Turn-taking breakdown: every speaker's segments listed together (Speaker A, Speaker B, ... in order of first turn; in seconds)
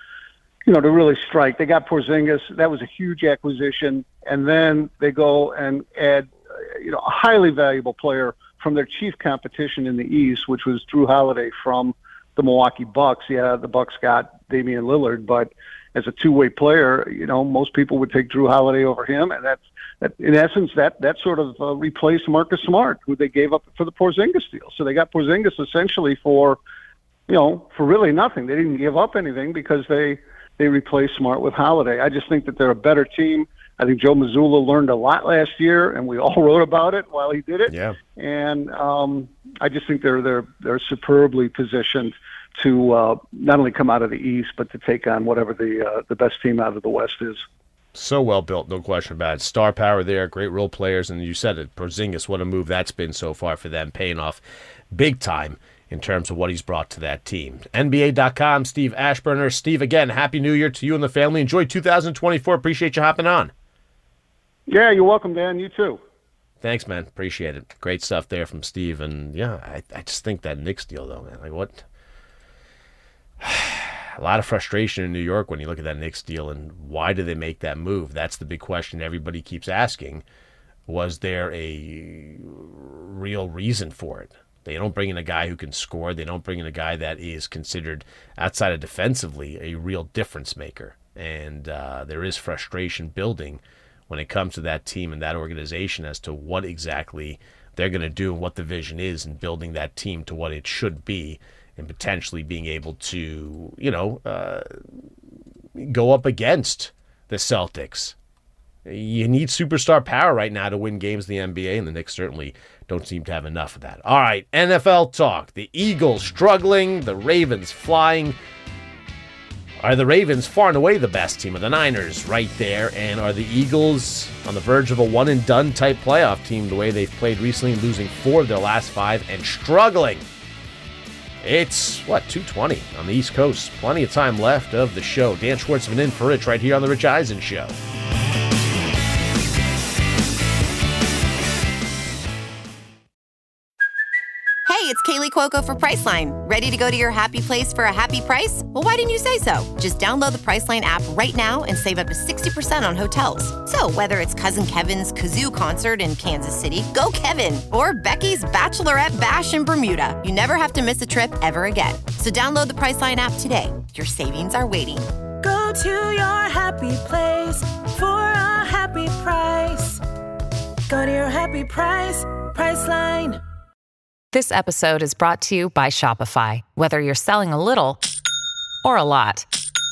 Speaker A: 0.6-26.6, 27.3-47.4, 64.7-66.0
Speaker B: 37.7-38.0, 47.9-63.5, 66.6-71.8, 73.4-80.2, 80.9-104.7, 105.8-108.1, 108.8-118.3, 119.8-130.2, 131.4-137.8
Speaker C: 144.7-165.1
Speaker D: 165.4-170.0, 170.9-173.4
Speaker E: 174.3-178.0, 178.8-179.5